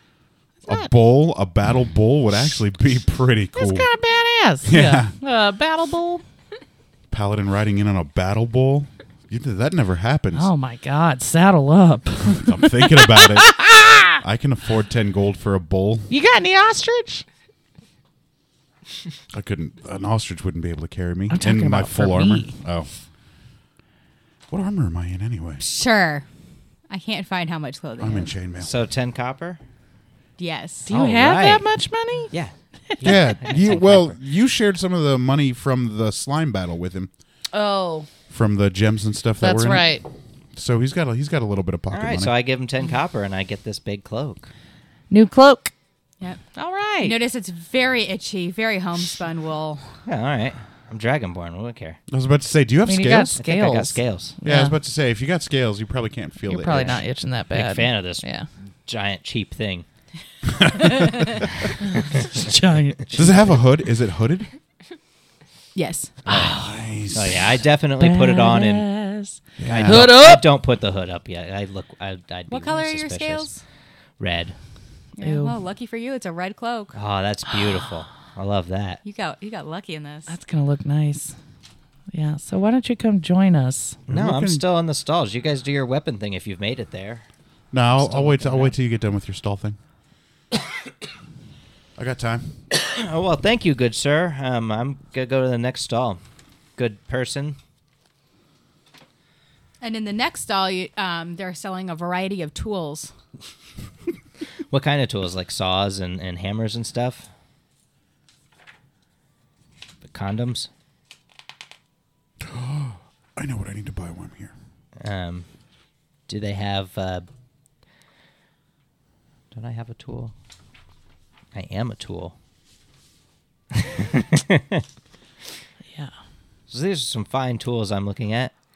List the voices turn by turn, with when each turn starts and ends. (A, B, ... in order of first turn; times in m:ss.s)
0:00.6-0:00.9 A
0:00.7-0:03.9 B
0:03.6-0:06.2 A
0:04.6-0:05.1 B
0:07.1-0:10.5 B
0:10.3-0:14.2 A
0:12.4-0:16.1 B
0:16.1-0:17.2 A
0:19.3-0:22.9 B
0:21.3-0:22.6 A
0:24.5-0:25.6 B
0:25.6-0:26.3 C
0:26.9-0:28.3 C
0:28.0-0:28.7 B
0:28.6-0:29.6 D
0:30.4-0:30.9 C
0:30.9-0:32.3 A
0:30.9-0:31.7 D
0:32.3-0:34.2 D
0:33.0-0:37.1 B
0:37.5-0:38.1 A
0:38.3-0:40.0 B
0:39.4-0:40.0 A
0:40.6-0:42.3 B
0:41.9-0:44.5 D
0:45.1-0:45.7 A
0:46.6-0:47.2 A
0:47.0-0:49.9 C
0:50.0-0:52.0 D
0:52.1-0:53.4 B
0:52.9-0:54.8 A
0:53.4-0:54.4 D
0:54.4-0:57.0 B
0:56.5-0:58.5 A
0:56.7-0:58.3 D
0:58.8-0:59.9 D
1:00.6-1:01.4 B
1:02.2-1:03.6 A
1:03.1-1:04.5 B
1:05.8-1:06.2 C
1:06.3-1:07.5 B
1:06.3-1:06.8 A
1:07.1-1:08.9 D
1:08.0-1:10.5 A
1:09.6-1:10.1 B
1:09.7-1:13.5 D
1:12.5-1:13.6 C
1:14.2-1:14.6 D
1:15.2-1:17.0 C
1:15.2-1:15.6 A
1:16.9-1:19.0 D
1:19.0-1:20.3 C
1:20.3-1:21.4 A
1:22.1-1:24.0 A
1:24.1-1:27.2 D
1:24.1-1:24.6 B
1:27.7-1:29.8 B
1:28.0-1:28.8 D
1:32.0-1:32.6 B
1:32.7-1:36.2 D
1:36.8-1:37.6 D
1:39.8-1:43.1 C
1:44.7-1:47.3 D
1:50.0-1:50.7 D
1:52.4-1:54.5 B
1:55.0-1:55.5 D
1:56.3-1:57.3 D
1:59.5-2:00.3 D
2:01.5-2:02.4 D
2:03.7-2:04.8 D
2:06.7-2:08.5 D